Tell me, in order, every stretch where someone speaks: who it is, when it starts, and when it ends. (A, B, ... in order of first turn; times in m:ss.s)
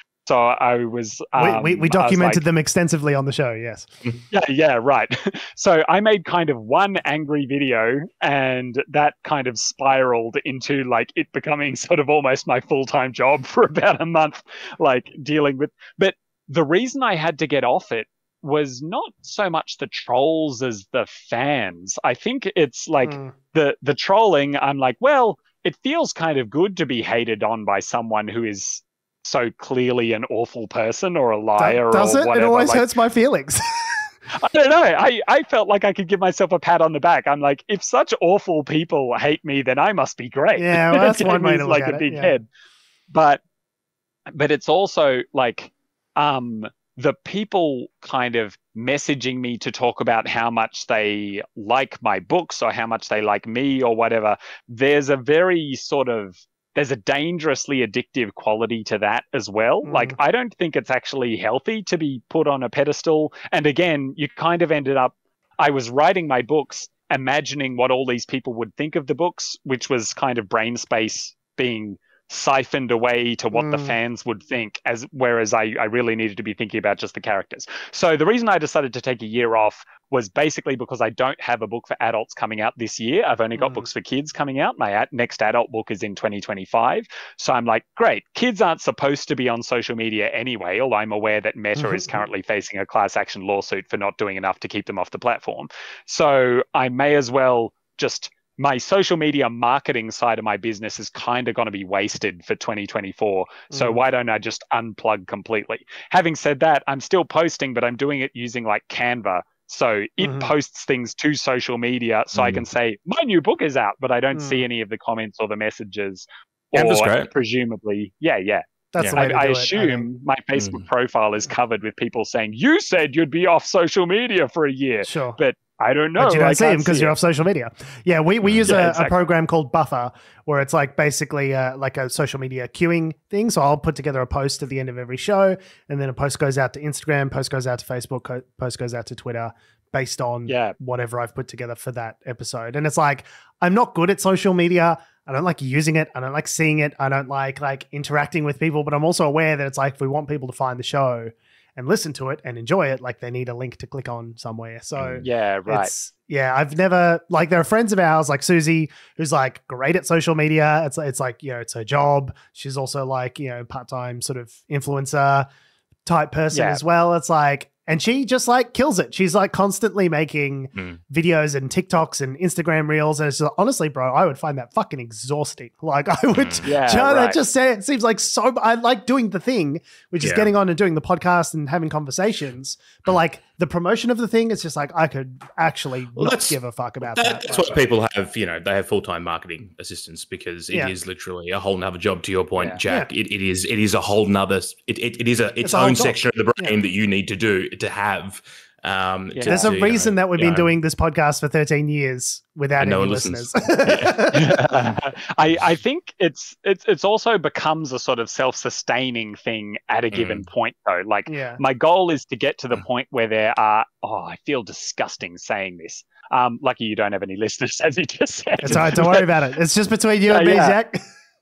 0:00.3-0:02.4 A
0:01.4-0:03.9 B
0:04.3-0:32.9 A
0:23.0-0:23.3 B
0:31.6-0:34.0 B
0:34.4-0:42.4 A
0:40.6-0:42.4 B
0:43.1-0:43.4 A
0:44.3-2:07.1 A
0:59.8-1:00.2 B
1:13.6-1:14.0 B
1:23.6-1:23.9 B
1:31.8-1:32.1 B
1:43.7-1:44.0 B
1:50.2-1:50.5 B
1:52.4-1:52.6 C
1:54.3-1:54.6 B
1:56.8-1:57.3 C
1:58.9-2:00.0 B
2:00.6-2:00.8 C
2:05.0-2:05.4 B
2:06.2-2:45.5 B
2:08.4-2:08.7 C
2:08.6-2:09.1 A
2:20.5-2:20.8 A
2:35.0-2:35.2 C
2:35.2-2:35.9 A
2:46.1-3:07.8 B
2:46.5-2:46.8 A
2:56.4-2:56.6 C
2:56.6-2:57.4 A
3:00.2-3:00.5 C
3:06.2-3:06.6 C
3:07.1-3:20.7 C
3:15.6-3:16.8 B
3:19.4-3:19.7 A
3:19.4-3:24.5 B
3:22.8-3:24.3 C
3:24.3-3:39.3 A
3:30.1-3:30.4 C
3:31.3-3:31.6 B
3:38.6-3:41.0 B
3:40.3-3:40.8 A